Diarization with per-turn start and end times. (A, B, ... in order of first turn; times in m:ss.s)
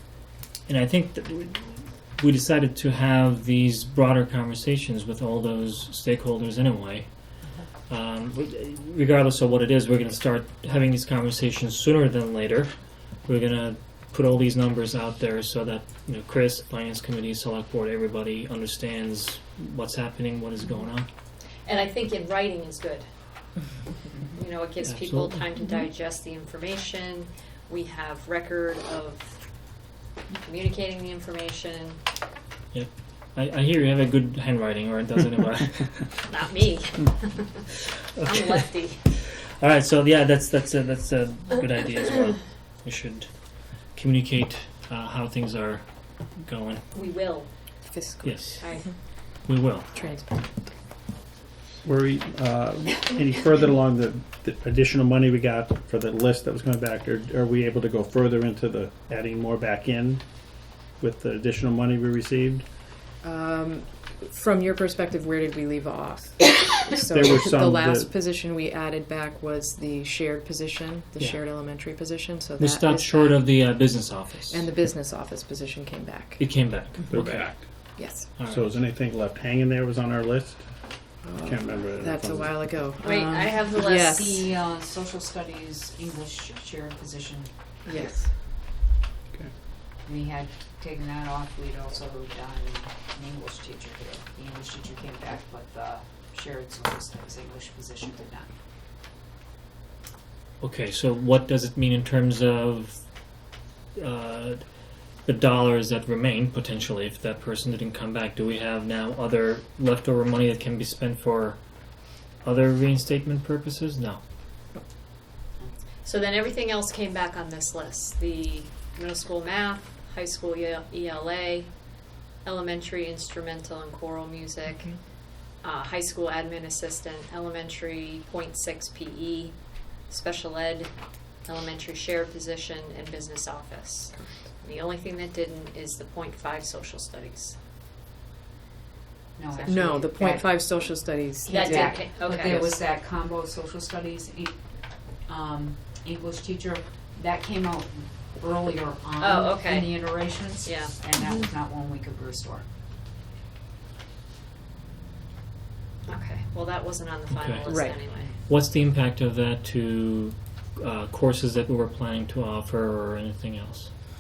0:00.7-0:07.1 A
0:07.9-0:21.1 A
0:21.6-0:23.0 B
0:24.3-0:29.4 B
0:24.8-0:25.5 A
0:30.4-0:32.0 B
0:32.7-0:36.1 A
0:36.3-0:37.7 B
0:38.2-0:38.6 A
0:38.2-0:39.0 B
0:39.1-0:43.3 A
0:43.9-0:45.8 A
0:46.4-0:46.8 A
0:46.9-0:47.5 B
0:47.8-0:48.9 C
0:48.2-0:48.6 A
0:48.6-0:48.9 B
0:49.4-0:50.0 A
0:49.9-0:50.7 C
0:51.8-1:00.2 D
1:00.9-1:02.7 D
1:03.2-1:13.6 C
1:06.9-1:08.1 D
1:12.6-1:14.7 A
1:14.5-1:16.4 C
1:16.4-1:17.6 A
1:17.1-1:17.7 D
1:18.0-1:18.3 C
1:18.4-1:18.7 A
1:18.5-1:20.7 D
1:21.2-1:24.5 C
1:21.3-1:22.6 D
1:23.0-1:24.1 B
1:23.6-1:28.1 E
1:27.8-1:28.3 C
1:30.0-1:38.5 E
1:40.6-1:43.0 A
1:44.0-1:44.6 A
1:45.2-1:51.6 A
1:52.4-1:54.2 A
1:56.0-2:01.8 B
2:02.4-2:09.6 B
2:10.1-2:10.9 B
2:11.4-2:17.6 B
2:14.1-2:14.5 C
2:19.4-2:20.6 E
2:19.5-2:20.1 B
2:19.7-2:22.7 C
2:21.4-2:32.7 E
2:21.5-2:22.7 B
2:29.2-2:31.0 B
2:36.1-2:38.4 B
2:37.3-2:37.7 A
2:37.7-2:38.0 C
2:38.5-2:43.9 A